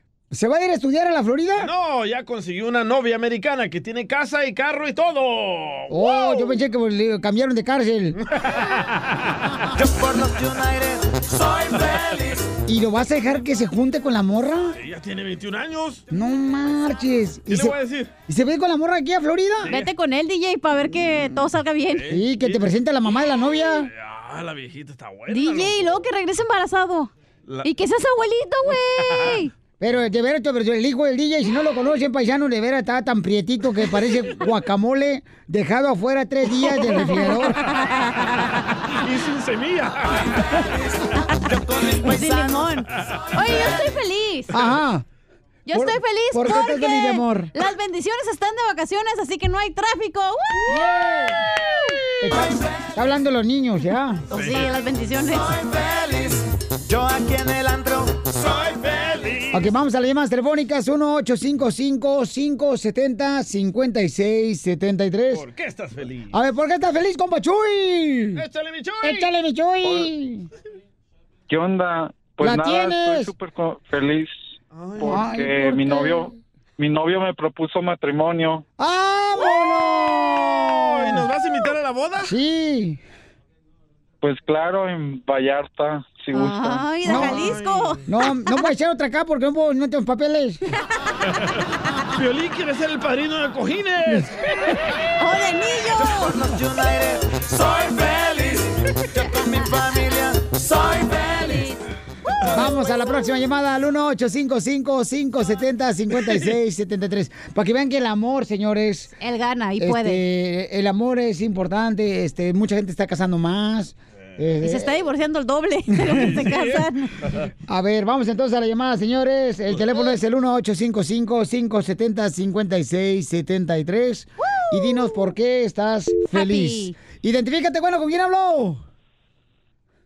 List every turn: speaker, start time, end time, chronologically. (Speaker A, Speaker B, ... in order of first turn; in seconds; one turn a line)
Speaker A: 0.3-1.7
Speaker B: 1.6-6.5
Speaker A: 5.9-8.2
Speaker B: 8.3-9.1
Speaker C: 9.8-11.1
Speaker B: 11.7-12.0
Speaker A: 12.7-14.8
Speaker B: 14.8-16.0
Speaker A: 16.1-17.7
Speaker B: 17.5-18.1
Speaker A: 18.3-19.7
Speaker B: 19.7-19.9
Speaker D: 19.7-22.1
Speaker B: 21.9-22.7
Speaker A: 22.1-23.9
Speaker B: 23.9-25.9
Speaker D: 25.3-27.1
Speaker D: 27.6-29.5
Speaker B: 29.1-29.4
Speaker A: 29.8-37.6
Speaker D: 36.6-38.8
Speaker B: 39.0-40.6
Speaker C: 41.5-42.7
Speaker D: 42.0-44.5
Speaker A: 44.5-45.0
Speaker D: 45.7-50.8
Speaker A: 45.7-47.5
Speaker A: 50.7-51.4
Speaker A: 52.2-54.2
Speaker D: 54.3-55.6
Speaker B: 54.3-54.7
Speaker C: 56.9-58.2
Speaker B: 58.6-59.7
Speaker A: 59.5-65.4
Speaker B: 65.3-66.3
Speaker A: 66.3-68.4
Speaker B: 68.3-69.3
Speaker A: 69.0-70.5
Speaker E: 71.5-78.6
Speaker A: 72.4-73.3
Speaker B: 74.7-75.3
Speaker A: 75.0-76.3
Speaker A: 78.8-81.2
Speaker B: 79.3-82.3
Speaker A: 82.2-83.0
Speaker E: 84.2-87.0
Speaker D: 86.3-88.0
Speaker B: 87.0-88.0
Speaker A: 88.1-90.6
Speaker B: 92.1-94.4
Speaker D: 95.2-96.4
Speaker C: 96.0-97.8
Speaker C: 99.1-100.9
Speaker D: 99.2-99.8
Speaker D: 101.4-101.8
Speaker D: 102.4-103.0
Speaker A: 102.5-109.1
Speaker D: 109.2-110.2
Speaker A: 109.8-115.0
Speaker D: 114.6-117.1
Speaker B: 116.1-117.3
Speaker A: 117.7-128.8
Speaker B: 119.7-120.1
Speaker D: 124.7-125.2
Speaker D: 126.3-127.0